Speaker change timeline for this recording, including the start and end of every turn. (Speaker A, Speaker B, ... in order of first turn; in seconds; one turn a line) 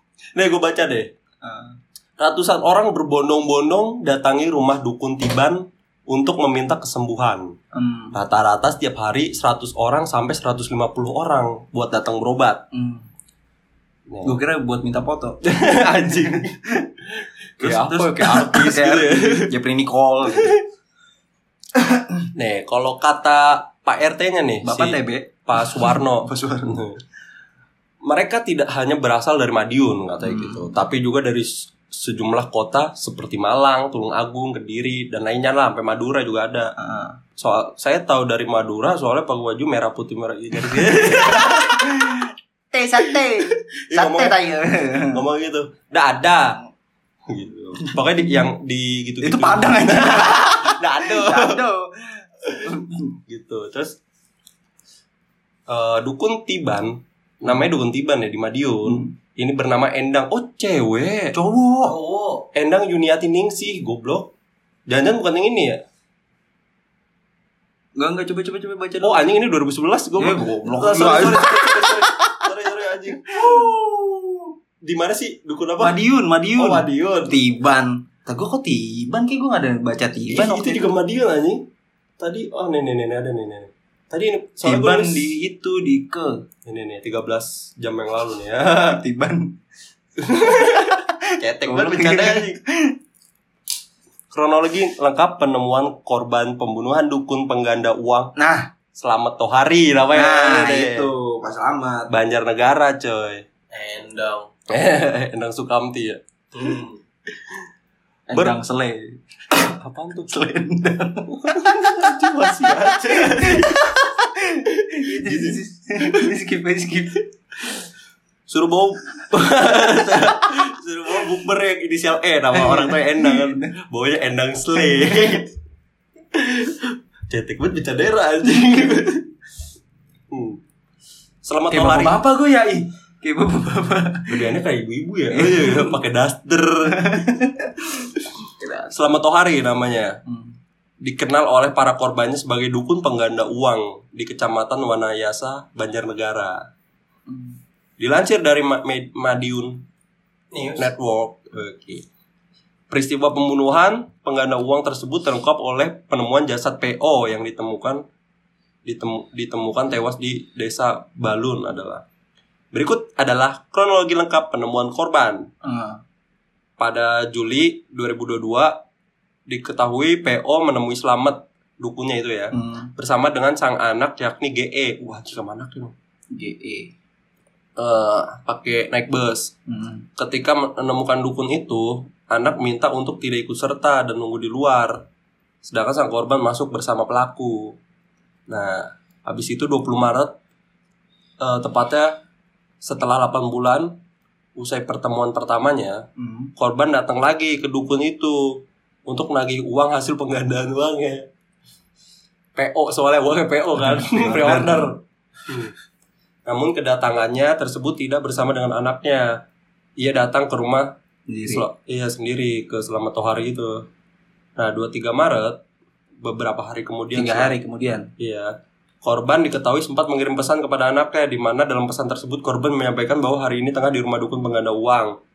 Speaker A: 0.4-1.1
Speaker B: 1.4-1.8
Speaker A: 2.2-7.5
Speaker B: 7.7-8.1
Speaker A: 8.1-12.6
Speaker B: 12.7-13.1
Speaker A: 14.1-14.4
Speaker B: 14.2-15.4
Speaker A: 15.4-16.7
Speaker B: 16.2-16.6
Speaker A: 17.2-19.5
Speaker B: 17.6-20.6
Speaker A: 20.3-20.6
Speaker B: 21.8-22.2
Speaker A: 22.4-27.0
Speaker B: 24.6-26.8
Speaker A: 28.0-36.7
Speaker B: 30.2-30.7
Speaker B: 36.8-37.2
Speaker A: 37.4-42.1
Speaker B: 40.6-45.2
Speaker A: 43.1-44.4
Speaker A: 45.1-46.6
Speaker A: 47.3-51.6
Speaker B: 47.8-48.5
Speaker B: 49.2-53.2
Speaker A: 53.3-54.0
Speaker A: 55.7-61.4
Speaker B: 61.3-62.0
Speaker C: 61.8-62.5
Speaker A: 62.5-64.3
Speaker A: 64.9-65.8
Speaker B: 68.0-69.3
Speaker A: 69.0-73.8
Speaker B: 70.2-72.5
Speaker B: 73.3-74.3
Speaker A: 74.8-76.0
Speaker B: 75.8-80.9
Speaker A: 76.6-77.3
Speaker A: 80.3-81.6
Speaker A: 82.2-85.3
Speaker B: 84.6-86.4
Speaker A: 86.7-89.0
Speaker B: 88.7-89.6
Speaker A: 90.2-92.6
Speaker B: 90.5-93.0
Speaker A: 94.3-98.3
Speaker B: 98.4-98.7
Speaker A: 99.0-101.1
Speaker B: 100.1-102.1
Speaker A: 102.1-103.5
Speaker C: 103.7-104.5
Speaker A: 104.7-106.2
Speaker C: 106.5-107.0
Speaker B: 108.3-109.7
Speaker A: 109.6-110.3
Speaker B: 110.3-117.3
Speaker A: 111.3-113.8
Speaker A: 114.7-116.3
Speaker A: 118.5-125.5
Speaker B: 122.5-123.7
Speaker B: 124.8-125.4
Speaker A: 126.3-129.2
Speaker A: 130.3-130.6
Speaker A: 131.4-132.2
Speaker B: 131.7-134.6
Speaker A: 134.3-137.0
Speaker B: 135.3-136.0
Speaker B: 136.9-138.9
Speaker A: 138.9-140.2
Speaker B: 140.3-140.6
Speaker A: 141.0-146.7
Speaker B: 147.3-147.6
Speaker A: 148.0-149.8
Speaker C: 150.5-150.8
Speaker A: 150.7-152.1
Speaker A: 152.9-158.0
Speaker A: 158.8-162.0
Speaker A: 162.7-165.5
Speaker B: 165.6-166.0
Speaker A: 166.8-168.8
Speaker A: 169.5-175.9
Speaker B: 172.5-172.9
Speaker B: 176.3-176.9
Speaker A: 177.8-179.5
Speaker B: 179.7-180.1
Speaker A: 180.2-185.0
Speaker A: 185.6-187.8
Speaker A: 188.5-190.3
Speaker A: 191.4-192.1
Speaker A: 192.8-193.9
Speaker A: 194.6-196.0
Speaker B: 196.2-196.5
Speaker A: 196.6-201.3
Speaker A: 202.6-205.7
Speaker B: 203.8-204.9
Speaker A: 206.4-209.4
Speaker A: 210.0-210.9
Speaker B: 211.3-211.6
Speaker A: 211.5-213.9
Speaker A: 214.6-215.6
Speaker A: 216.2-217.6
Speaker B: 217.1-218.1
Speaker A: 218.2-225.1